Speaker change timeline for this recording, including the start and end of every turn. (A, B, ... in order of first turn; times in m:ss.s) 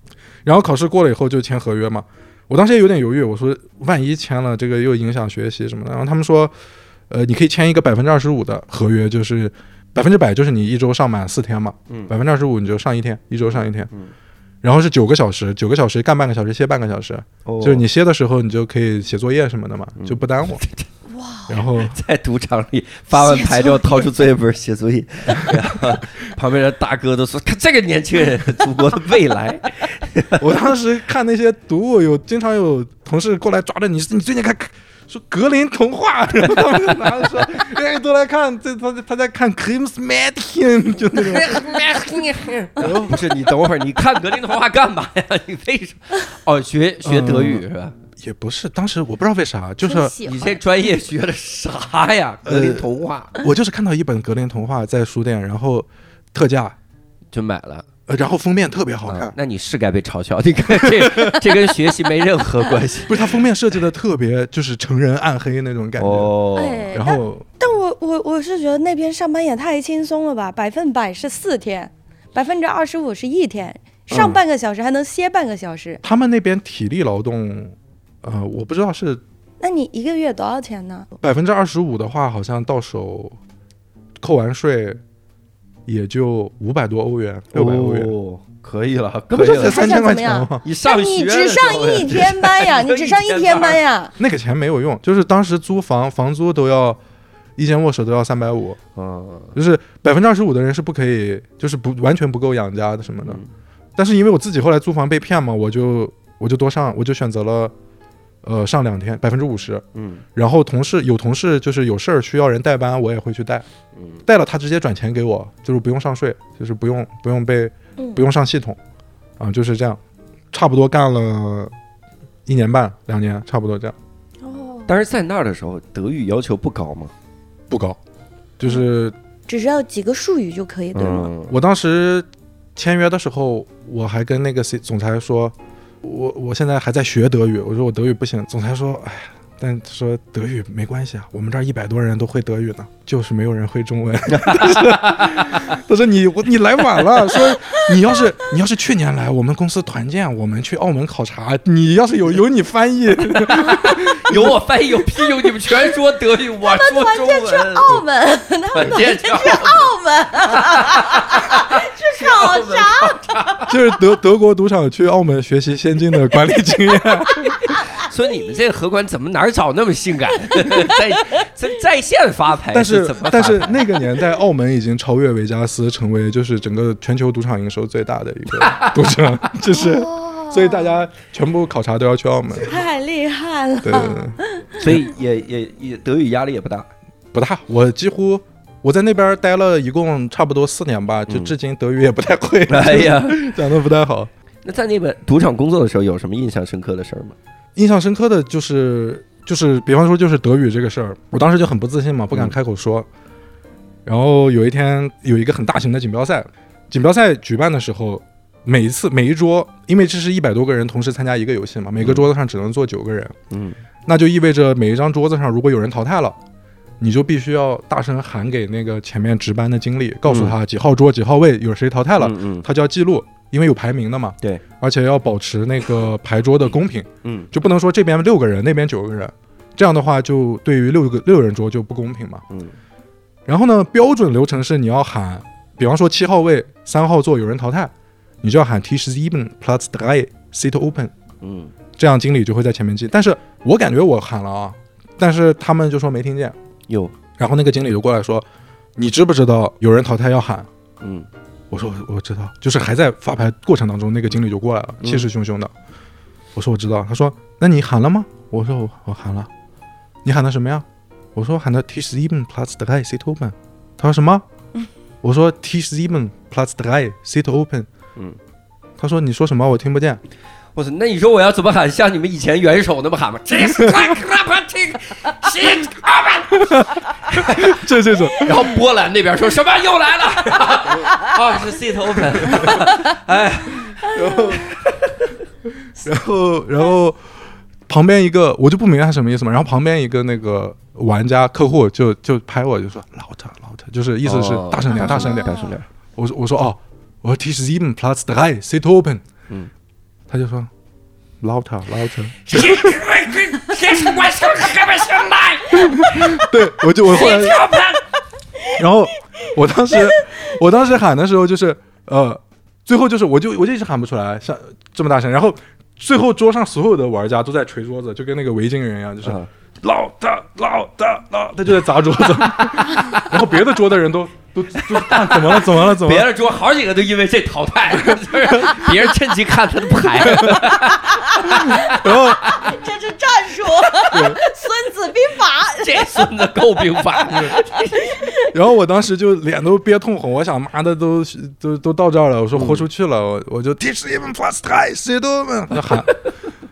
0:00.4-0:06.5 A
0:07.1-0:13.9 A
0:14.6-0:20.6 A
0:17.4-0:17.9 B
0:20.0-0:20.9 B
0:21.1-0:21.6 C
0:21.5-0:22.0 A
0:21.8-0:30.6 B
0:23.1-0:24.1 C
0:30.4-0:42.0 A
0:36.5-0:37.3 B
0:41.1-0:48.0 B
0:42.8-0:43.4 A
0:47.0-0:50.2 A
0:49.8-0:50.6 C
0:50.2-0:53.3 B
0:52.4-0:56.8 A
0:57.3-0:57.9 B
0:58.1-0:59.3 A
0:59.1-1:03.2 B
1:00.8-1:01.4 A
1:03.1-1:06.3 A
1:06.0-1:06.8 B
1:06.6-1:16.0 C
1:06.9-1:07.4 A
1:14.1-1:14.4 A
1:16.0-1:19.2 A
1:19.6-1:21.1 C
1:21.2-1:23.4 A
1:24.2-1:25.0 A
1:25.9-1:28.1 A
1:27.5-1:30.0 B
1:29.3-1:30.6 A
1:29.4-1:34.1 C
1:30.6-1:33.8 B
1:34.2-1:37.0 A
1:37.6-1:38.8 A
1:39.0-1:39.5 B
1:39.5-1:43.4 A
1:43.2-1:43.5 B
1:44.0-1:47.7 A
1:48.4-1:49.8 A
1:50.0-1:50.2 B
1:50.4-1:53.7 A
1:54.0-1:54.2 B
1:54.3-1:58.8 A
1:58.0-1:58.2 C
1:59.4-2:00.0 A
2:00.5-2:01.7 A
2:02.5-2:04.0 A
2:04.4-2:04.9 C
2:04.9-2:07.1 B
2:07.7-2:08.0 A
2:08.6-2:09.2 A
2:09.5-2:11.3 C
2:11.0-2:11.6 B
2:11.5-2:34.4 A
2:24.3-2:25.8 B
2:33.3-2:37.9 B
2:36.6-2:43.8 C
2:38.7-2:39.9 B
2:40.5-2:43.7 B
2:43.7-2:47.8 A
2:47.1-2:47.8 C
2:48.0-2:54.0 B
2:52.7-3:02.8 A
2:58.5-2:59.2 B
2:59.7-3:01.0 C
3:02.7-3:04.9 C
3:03.8-3:04.4 A
3:04.8-3:06.9 B
3:07.3-3:14.3 A
3:11.3-3:11.5 B
3:12.7-3:13.4 B
3:14.6-3:17.4 B
3:17.8-3:23.1 A
3:24.1-3:33.4 A
3:32.0-3:32.2 B
3:33.5-3:33.8 B
3:34.1-3:36.4 A
3:37.0-3:52.4 A
3:40.3-3:40.6 B
3:42.2-3:42.7 B
3:47.2-3:47.5 B
3:52.5-3:52.8 B
3:53.5-4:01.1 A
4:01.4-4:01.7 B
4:02.0-4:06.6 A
4:06.9-4:07.2 B
4:07.4-4:10.7 A
4:11.0-4:11.3 B
4:11.7-4:15.7 A
4:15.0-4:15.3 B
4:16.6-4:19.5 A
4:20.2-4:24.4 A
4:25.2-4:27.9 A
4:29.0-4:30.2 A
4:30.8-4:44.0 B
4:36.6-4:38.6 A
4:42.4-4:42.7 A
4:44.1-4:44.6 C
4:44.1-4:44.7 A
4:44.7-4:45.3 B
4:46.0-4:47.2 A
4:47.9-4:55.5 A
4:54.2-4:55.9 B
4:54.9-4:55.7 C
4:56.2-4:59.2 A
5:00.3-5:00.7 A
5:01.4-5:03.0 A
5:02.5-5:06.5 B
5:05.8-5:07.6 A
5:07.0-5:08.0 B
5:08.8-5:26.3 A
5:09.9-5:10.4 C
5:19.2-5:19.5 B
5:24.8-5:32.3 B
5:28.5-5:28.8 A
5:30.3-5:30.6 A
5:30.8-5:36.3 C
5:31.4-5:32.5 A
5:34.1-5:34.4 A
5:35.8-5:38.3 B
5:37.3-5:37.6 A
5:38.0-5:38.5 C
5:38.5-5:46.1 A
5:42.5-5:42.9 B
5:45.8-5:46.3 B